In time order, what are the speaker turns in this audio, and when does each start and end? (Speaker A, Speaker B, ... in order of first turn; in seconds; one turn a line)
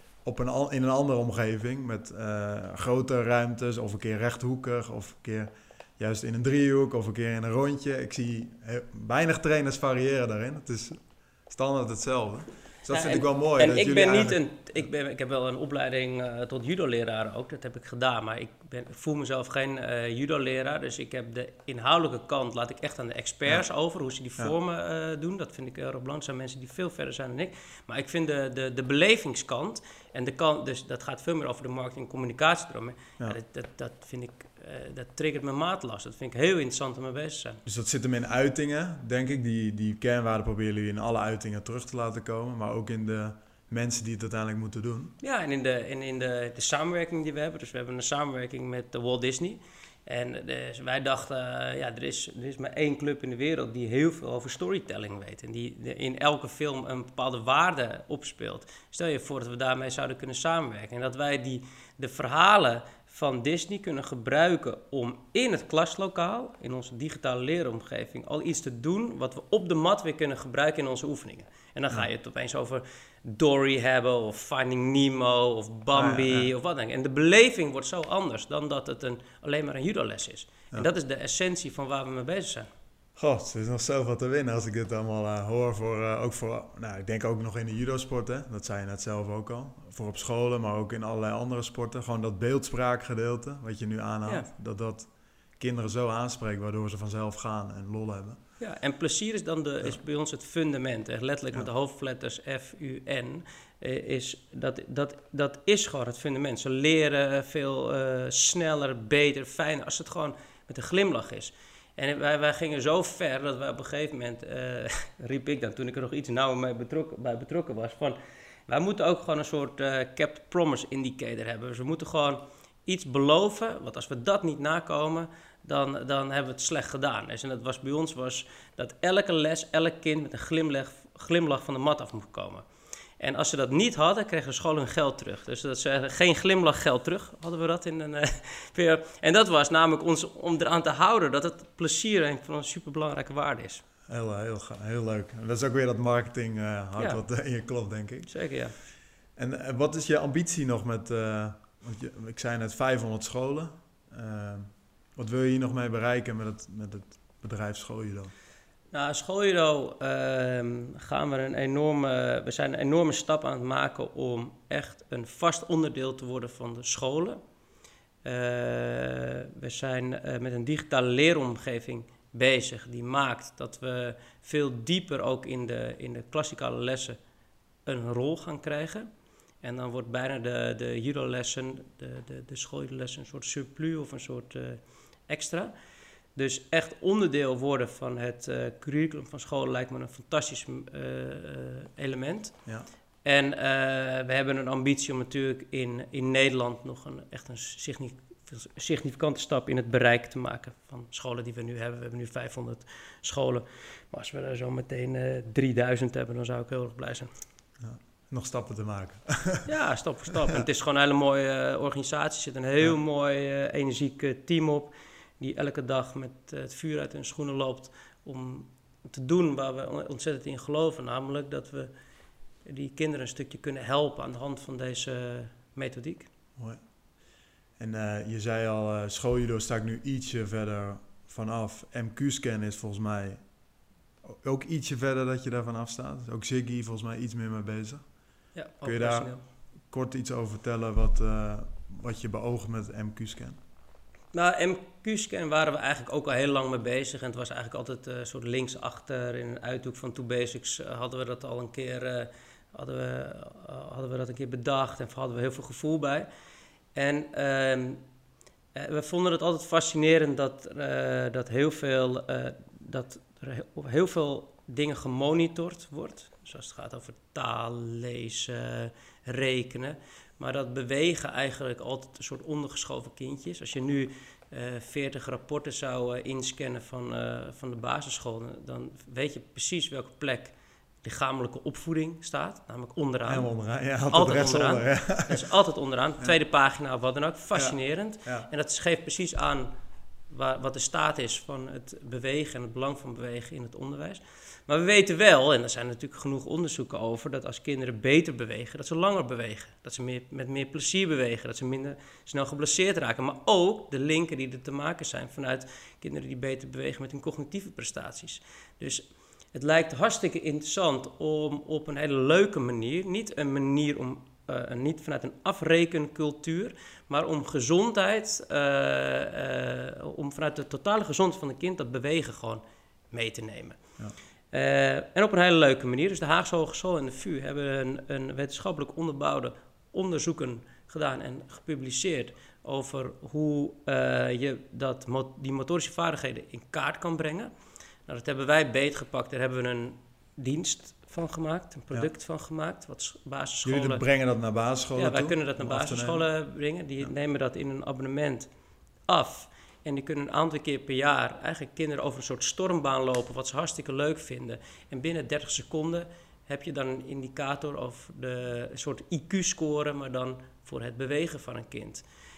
Speaker A: 0.2-14.8
Speaker B: 12.9-37.6
Speaker A: 37.6-45.1
Speaker B: 45.2-82.7
Speaker A: 75.9-76.5
Speaker A: 83.2-98.4
Speaker B: 98.6-132.6
Speaker B: 133.2-143.8
Speaker A: 144.1-148.3
Speaker B: 148.3-148.7
Speaker A: 149.3-158.3
Speaker B: 158.9-167.4
Speaker B: 168.2-177.2
Speaker B: 177.8-179.1
Speaker B: 179.6-185.7
Speaker B: 186.3-192.6
Speaker B: 193.2-207.3
Speaker A: 207.8-209.7
Speaker B: 209.7-221.9
Speaker B: 222.6-226.3
Speaker A: 226.6-226.8
Speaker A: 227.8-233.4
Speaker A: 234.2-238.0
Speaker B: 238.5-239.4
Speaker A: 238.8-239.3
Speaker A: 239.9-243.6
Speaker B: 244.3-256.3
Speaker B: 256.9-258.0
Speaker B: 258.7-283.5
Speaker A: 283.3-285.4
Speaker B: 284.1-289.7
Speaker A: 287.5-288.5
Speaker B: 290.3-323.8
Speaker B: 324.5-337.5
Speaker B: 338.1-344.0
Speaker A: 343.6-346.2
Speaker B: 344.9-348.5
Speaker B: 349.1-362.0